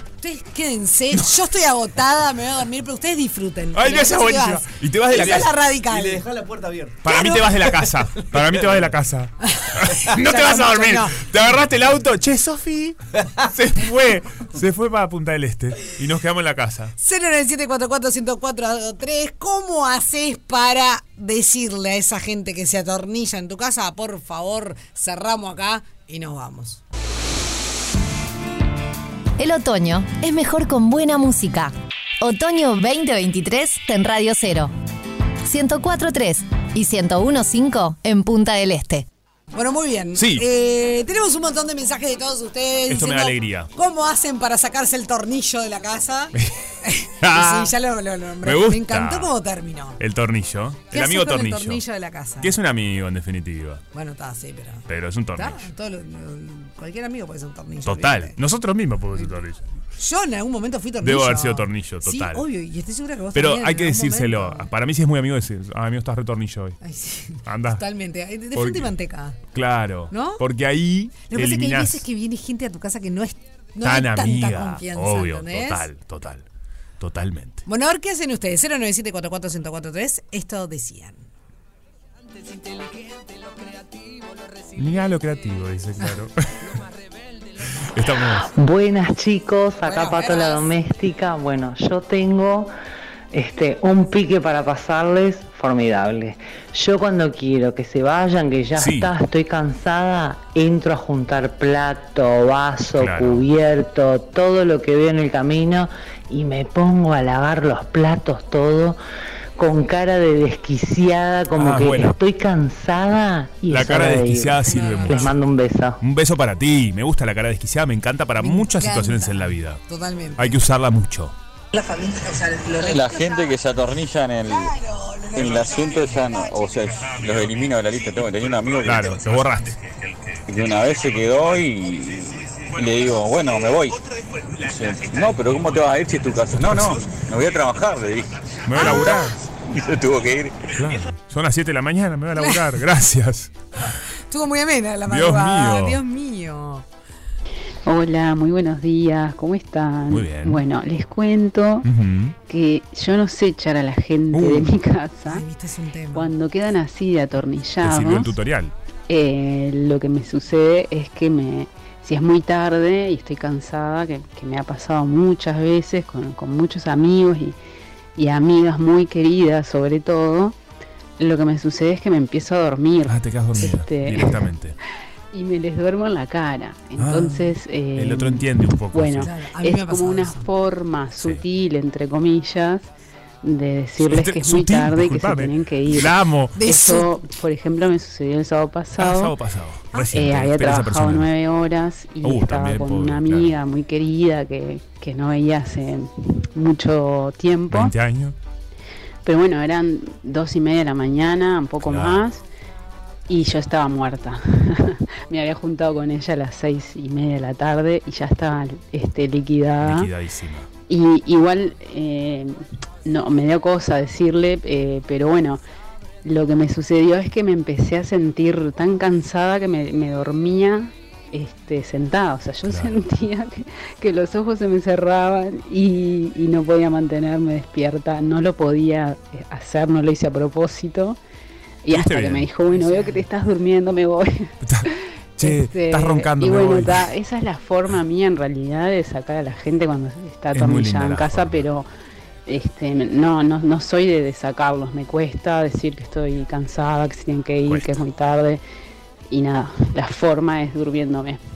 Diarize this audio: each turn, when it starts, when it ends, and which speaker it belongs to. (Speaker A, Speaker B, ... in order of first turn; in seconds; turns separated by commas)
Speaker A: 0.2-6.2, Speaker B: 3.7-5.5, Speaker C: 5.2-8.9, Speaker B: 7.0-16.9, Speaker A: 7.1-7.6, Speaker A: 9.4-11.6, Speaker A: 17.0-26.8, Speaker D: 29.4-34.7, Speaker D: 35.5-39.1, Speaker A: 39.5-50.0, Speaker B: 40.1-40.5, Speaker B: 42.9-43.7, Speaker B: 46.3-46.7, Speaker B: 47.2-47.8, Speaker B: 48.4-49.3, Speaker B: 50.0-51.8, Speaker A: 50.9-52.5, Speaker B: 52.4-53.8, Speaker A: 53.9-58.4, Speaker B: 54.9-55.7, Speaker B: 57.9-59.6, Speaker A: 60.0-64.7, Speaker B: 61.0-62.5, Speaker B: 63.3-66.8, Speaker A: 66.8-69.4, Speaker B: 67.5-67.8, Speaker B: 68.5-68.9, Speaker B: 69.5-72.0, Speaker A: 70.1-70.4, Speaker A: 71.3-75.9, Speaker B: 73.8-76.5, Speaker B: 77.0-77.6, Speaker A: 77.7-81.3, Speaker A: 82.3-85.0, Speaker B: 84.8-86.7, Speaker A: 86.0-88.5, Speaker B: 87.8-88.5, Speaker E: 88.5-92.7, Speaker A: 89.8-90.7, Speaker E: 93.3-109.0, Speaker B: 98.8-99.1, Speaker B: 103.0-103.5, Speaker E: 109.6-116.0, Speaker B: 111.5-112.2, Speaker B: 113.7-115.4, Speaker A: 114.6-115.3, Speaker B: 116.0-119.8, Speaker A: 118.4-120.6, Speaker B: 120.4-121.3, Speaker A: 121.7-123.6, Speaker F: 122.8-124.8, Speaker A: 124.5-126.6, Speaker F: 125.3-129.3, Speaker B: 128.8-130.4, Speaker F: 130.5-134.0, Speaker B: 133.9-137.3, Speaker F: 134.7-140.8, Speaker B: 138.6-139.4, Speaker A: 138.8-139.3, Speaker B: 140.7-143.5, Speaker A: 142.3-142.8, Speaker A: 143.8-146.8, Speaker B: 145.1-146.0, Speaker G: 147.9-151.9, Speaker B: 150.1-150.6, Speaker B: 151.8-152.4, Speaker G: 152.5-155.4, Speaker B: 154.3-154.7, Speaker A: 155.3-156.3, Speaker G: 156.1-158.3, Speaker B: 157.8-158.7, Speaker G: 159.1-167.6, Speaker G: 168.2-170.6, Speaker G: 171.2-174.4, Speaker B: 173.1-174.8, Speaker G: 175.3-182.9, Speaker B: 177.0-179.3, Speaker A: 179.2-180.5, Speaker B: 181.2-181.4, Speaker G: 183.4-189.3, Speaker B: 184.0-186.6, Speaker A: 186.6-187.1, Speaker B: 189.0-191.3, Speaker A: 189.9-190.2, Speaker G: 190.1-197.9, Speaker B: 192.2-193.6, Speaker B: 197.7-198.4, Speaker G: 199.2-202.4, Speaker B: 201.8-202.2, Speaker G: 203.3-210.1, Speaker B: 209.8-210.7, Speaker G: 210.9-215.6, Speaker G: 216.2-231.2, Speaker B: 222.7-223.0, Speaker G: 231.8-241.9, Speaker B: 231.9-232.5, Speaker A: 232.7-233.3, Speaker B: 234.6-237.1, Speaker B: 240.5-241.7, Speaker G: 242.5-248.6, Speaker B: 247.7-248.1, Speaker G: 249.3-251.4